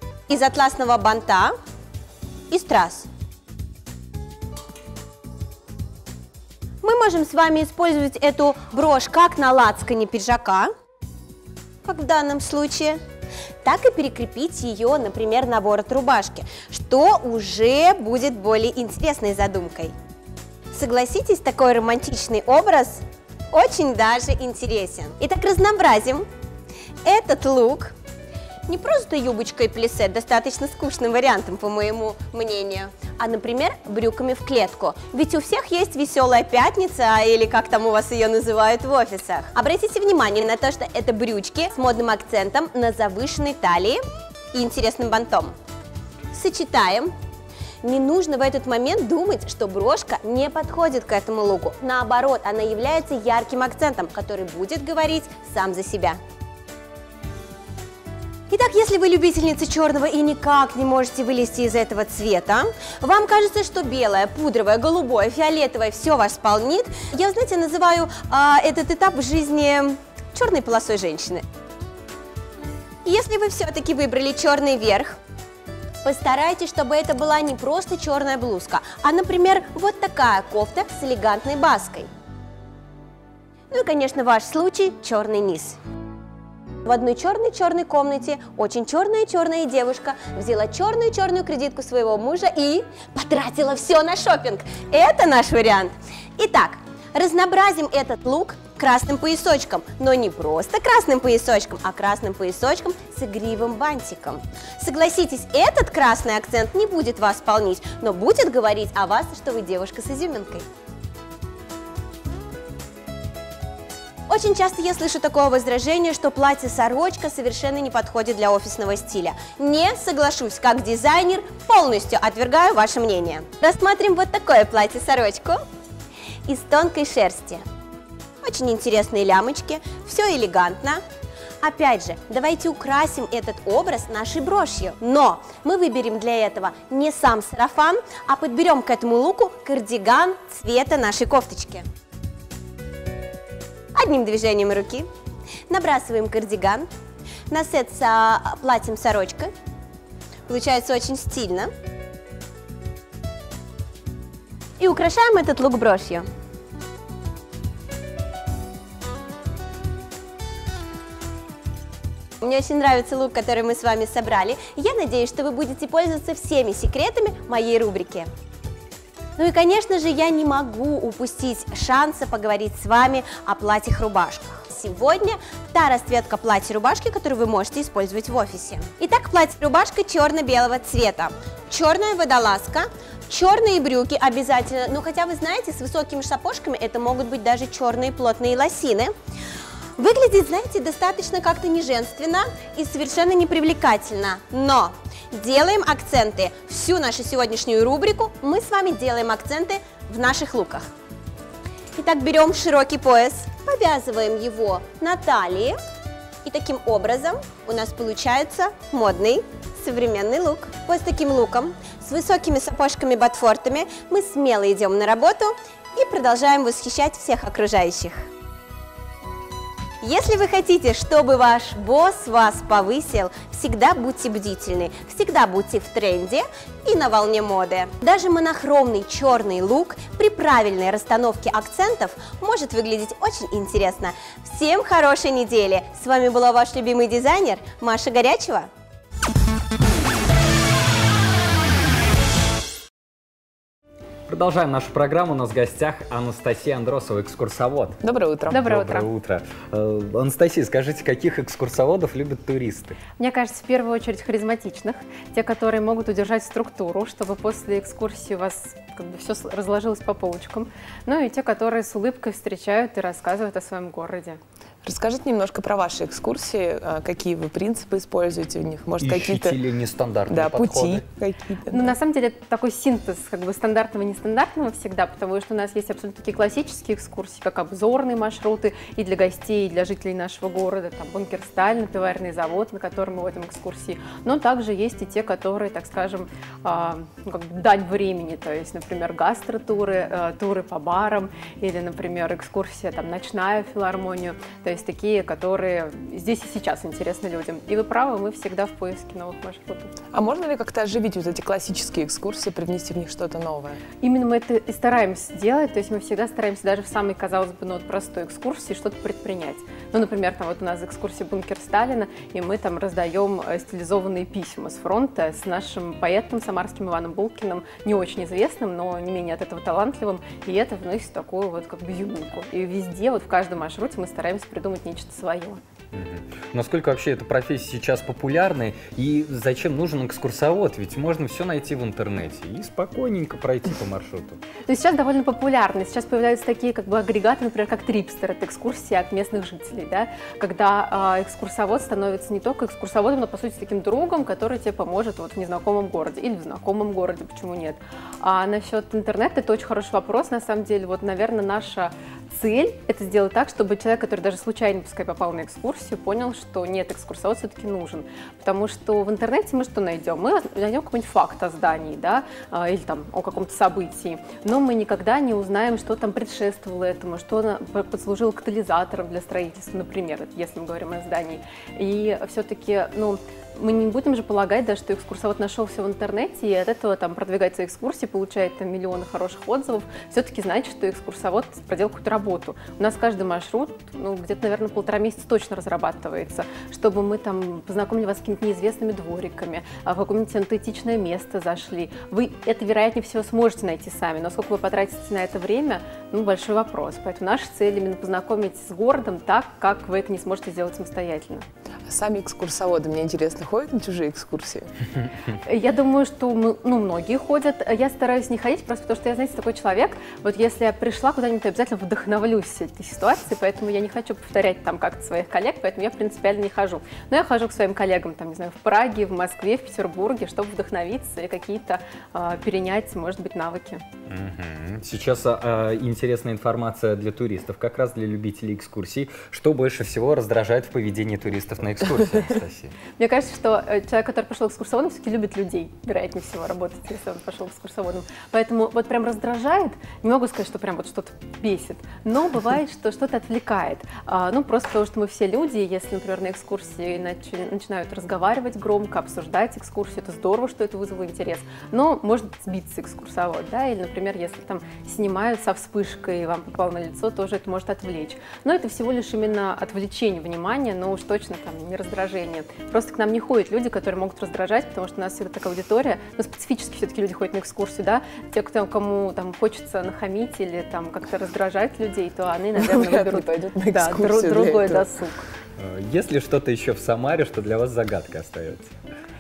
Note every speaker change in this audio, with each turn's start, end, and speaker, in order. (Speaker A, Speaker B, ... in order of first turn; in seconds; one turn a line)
Speaker A: 0.3-1.6
Speaker A: 2.5-3.1
Speaker A: 6.8-10.7
Speaker A: 11.8-13.0
Speaker A: 13.6-19.9
Speaker A: 20.7-26.3
Speaker A: 27.1-27.9
Speaker A: 28.7-44.0
Speaker A: 44.5-45.5
Speaker A: 46.3-47.1
Speaker A: 47.8-56.2
Speaker A: 58.5-71.4
Speaker A: 73.0-75.2
Speaker A: 76.0-82.1
Speaker A: 83.7-85.8
Speaker A: 86.8-110.7
Speaker A: 114.3-125.6
Speaker A: 126.5-127.6
Speaker A: 128.4-131.0
Speaker A: 131.6-141.8
Speaker A: 143.9-145.1
Speaker A: 145.7-146.9
Speaker A: 147.5-149.5
Speaker A: 150.5-151.7
Speaker A: 154.8-156.3
Speaker A: 162.4-168.3
Speaker A: 169.4-189.1
Speaker A: 190.0-200.9
Speaker A: 202.0-205.8
Speaker A: 206.4-218.3
Speaker A: 220.0-238.7
Speaker B: 244.3-248.0
Speaker C: 248.0-248.7
Speaker D: 248.5-249.1
Speaker B: 248.5-253.0
Speaker D: 253.2-264.4
Speaker C: 264.8-269.6
Speaker B: 269.0-271.0
Speaker C: 270.3-272.0
Speaker D: 271.7-299.9
Speaker C: 300.1-303.8
Speaker D: 304.0-325.6
Speaker B: 325.9-334.4
Speaker D: 334.7-401.5
Speaker C: 401.9-404.7
Speaker D: 405.4-423.8
Speaker B: 424.1-432.8
Speaker D: 433.0-475.3
Speaker C: 472.6-474.9
Speaker B: 475.6-478.7